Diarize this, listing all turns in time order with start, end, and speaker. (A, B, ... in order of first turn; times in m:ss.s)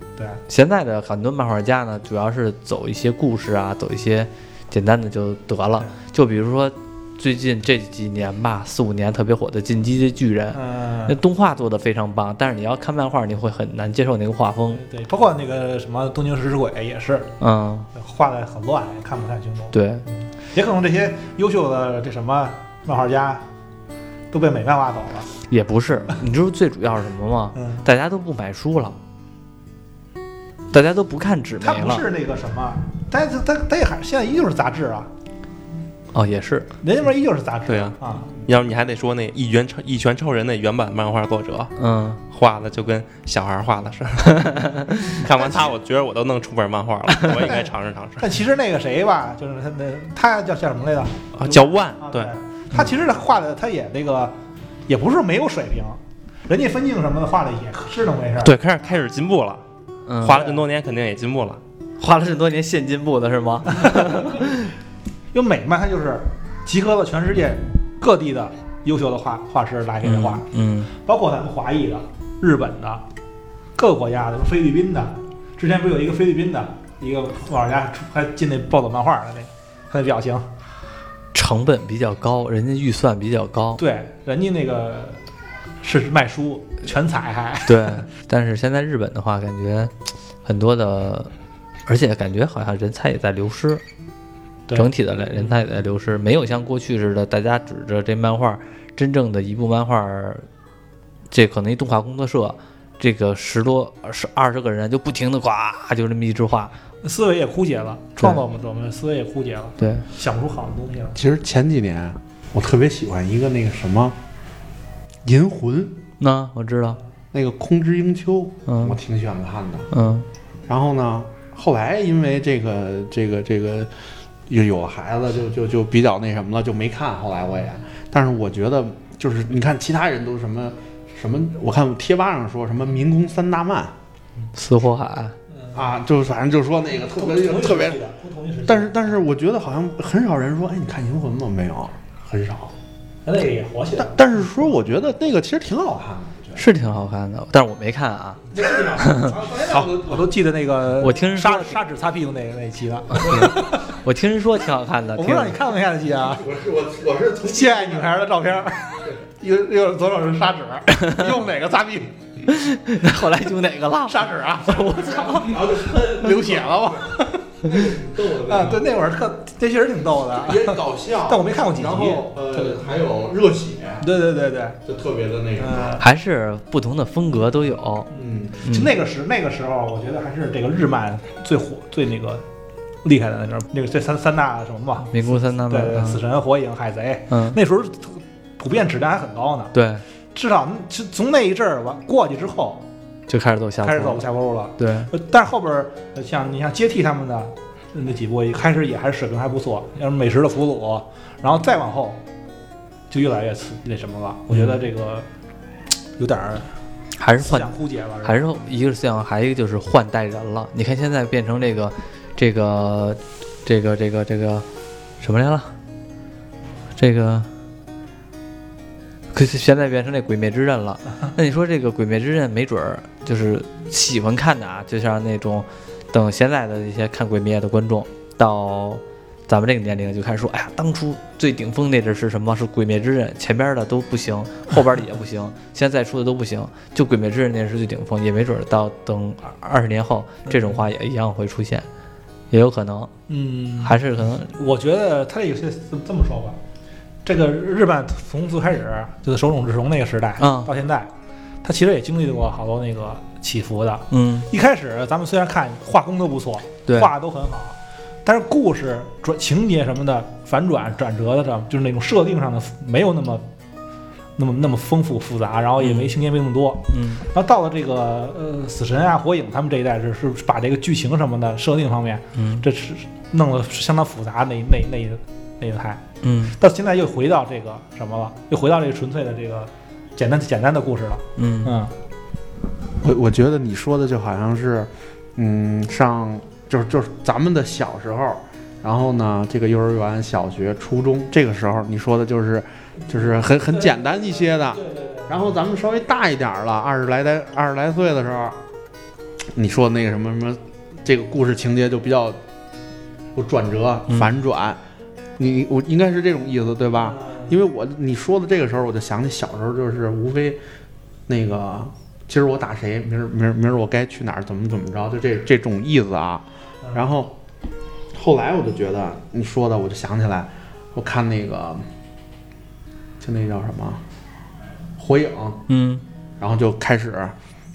0:00.2-0:00.4 A
0:00.5-0:14.8 B
0:10.5-0:11.2 A
0:14.7-0:17.3 A
0:17.4-0:17.9 B
0:17.9-0:19.8 A
0:19.7-0:20.0 B
0:20.4-0:23.4 A
0:24.3-0:25.3 A
0:25.5-0:29.0 B
0:27.6-0:27.8 A
0:30.7-0:32.0 B
0:31.6-0:35.1 A
0:36.1-0:36.7 B
0:36.8-0:38.3 A
0:37.7-0:41.7 C
0:41.8-0:42.2 B
0:42.3-0:48.3 C
0:44.5-0:45.2 B
0:45.2-0:45.7 A
0:47.5-0:54.4 A
0:51.4-0:52.3 C
0:54.9-0:58.6 A
0:58.4-0:59.6 C
1:00.1-1:00.5 B
1:00.2-1:01.6 C
1:00.3-1:00.6 A
1:02.0-1:04.7 B
1:03.8-1:04.4 A
1:05.3-1:13.0 A
1:10.0-1:10.9 B
1:13.8-1:20.5 A
1:21.3-1:23.8 B
1:23.8-1:25.2 A
1:25.8-1:28.1 A
1:27.7-1:29.9 B
1:30.4-1:31.3 B
1:31.9-1:33.8 B
1:34.7-1:35.4 A
1:34.8-1:40.5 B
1:41.3-1:46.7 B
1:47.0-1:51.2 A
1:49.8-1:50.0 B
1:51.2-1:54.2 D
1:55.2-1:56.0 D
1:56.2-1:57.0 B
1:57.3-1:59.9 D
1:58.7-1:59.0 B
1:59.9-2:00.3 B
2:00.7-2:03.9 D
2:04.5-2:14.0 D
2:14.5-2:15.4 B
2:15.5-2:15.8 A
2:15.7-2:18.0 D
2:17.0-2:19.2 A
2:18.7-2:22.7 D
2:23.2-2:24.2 A
2:24.0-2:26.6 D
2:26.6-2:29.4 B
2:28.5-2:30.2 D
2:28.5-2:34.0 A
2:31.0-2:31.8 B
2:33.1-2:35.6 B
2:35.2-2:36.4 A
2:36.2-2:38.1 D
2:37.4-2:42.2 A
2:41.0-2:41.2 B
2:42.5-2:45.6 B
2:44.0-2:52.7 A
2:45.2-2:47.2 D
2:47.7-2:48.9 D
2:50.4-2:54.1 D
2:54.0-2:54.8 A
2:54.8-2:56.0 D
2:55.6-2:56.0 A
2:56.0-2:58.1 B
2:58.1-2:58.6 D
2:58.6-3:02.4 A
2:58.6-2:58.9 B
3:03.0-3:09.7 A
3:05.1-3:06.2 B
3:07.3-3:07.6 B
3:09.7-3:10.0 B
3:10.3-3:12.9 A
3:13.3-3:15.1 B
3:13.8-3:22.2 A
3:23.1-3:25.3 A
3:24.5-3:24.8 B
3:26.2-3:26.7 A
3:27.2-3:27.7 B
3:27.4-3:28.4 A
3:28.2-3:34.6 B
3:35.2-3:35.7 B
3:37.0-3:37.5 B
3:39.3-4:01.9 B
4:00.5-4:00.8 A
4:02.5-4:03.1 B
4:03.3-4:06.6 A
4:03.8-4:04.5 B
4:07.2-4:11.1 A
4:10.4-4:10.7 B
4:11.6-4:23.5 A
4:14.1-4:14.5 B
4:16.9-4:17.1 B
4:24.4-4:41.9 A
4:25.8-4:26.2 B
4:26.9-4:27.2 B
4:32.4-4:32.6 B
4:36.2-4:36.6 B
4:41.4-4:41.8 B
4:43.0-4:58.6 D
4:53.1-4:55.6 A
4:59.6-5:02.4 D
5:03.4-5:04.8 D
5:04.1-5:04.4 B
5:05.4-5:10.6 D
5:07.0-5:07.6 A
5:11.3-5:17.4 D
5:18.1-5:21.9 D
5:23.2-5:24.0 D
5:25.0-5:25.6 D
5:25.7-5:26.0 B
5:26.4-5:27.4 D